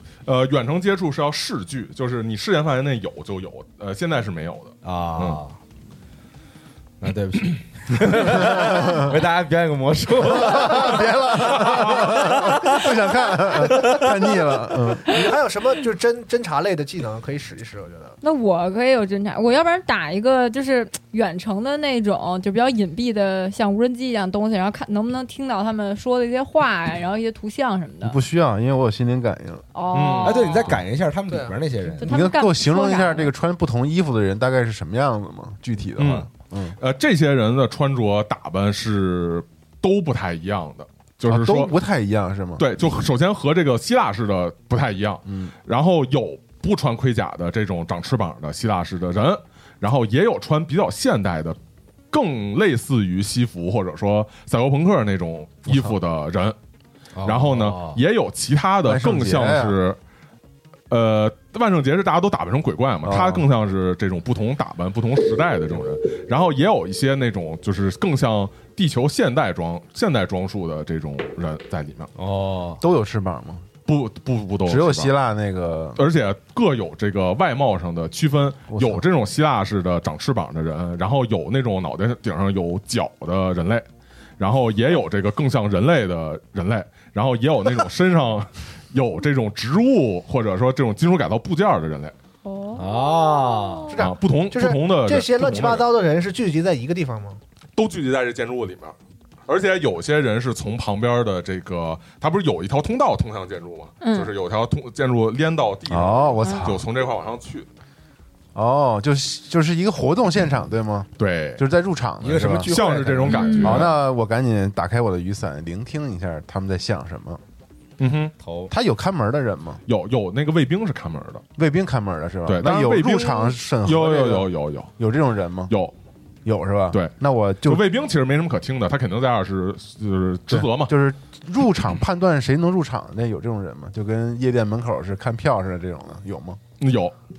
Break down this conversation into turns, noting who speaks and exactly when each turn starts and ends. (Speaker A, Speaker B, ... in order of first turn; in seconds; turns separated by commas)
Speaker A: 0.2-5.4, Speaker B: 4.8-5.6, Speaker B: 7.0-12.9, Speaker C: 8.2-9.2, Speaker C: 10.2-15.2, Speaker A: 11.5-12.1, Speaker D: 13.8-14.0, Speaker D: 15.0-18.2, Speaker E: 18.2-28.2, Speaker C: 28.0-29.6, Speaker E: 29.7-30.7, Speaker A: 29.9-30.8, Speaker B: 30.2-32.1, Speaker D: 31.3-31.6, Speaker E: 32.0-33.3, Speaker C: 32.0-36.8, Speaker A: 36.0-41.7, Speaker C: 41.3-42.7, Speaker A: 42.6-51.6, Speaker C: 45.2-45.5, Speaker A: 52.1-56.5, Speaker C: 55.7-55.9, Speaker B: 57.1-58.0, Speaker A: 57.2-60.0, Speaker C: 58.8-59.8, Speaker A: 60.9-72.1, Speaker C: 63.0-63.4, Speaker B: 72.2-72.8, Speaker C: 72.8-73.6, Speaker A: 73.8-75.1, Speaker C: 74.7-76.0, Speaker A: 76.0-83.8, Speaker C: 78.7-79.0, Speaker A: 84.4-92.1, Speaker E: 92.4-94.0, Speaker B: 92.8-93.9, Speaker D: 93.9-97.4, Speaker A: 94.0-95.9, Speaker A: 97.8-98.9, Speaker A: 99.5-107.7, Speaker E: 104.0-104.3, Speaker C: 105.9-106.8, Speaker E: 106.4-106.7, Speaker C: 108.5-117.4, Speaker A: 111.2-111.6, Speaker B: 112.2-113.9, Speaker A: 112.6-114.0, Speaker E: 113.3-113.8, Speaker A: 118.0-118.3, Speaker B: 118.4-118.7, Speaker C: 118.7-119.8, Speaker A: 119.9-121.4, Speaker C: 121.6-125.7, Speaker A: 122.5-124.9, Speaker C: 126.4-127.8, Speaker A: 126.9-130.9, Speaker C: 130.5-136.6, Speaker A: 136.8-137.1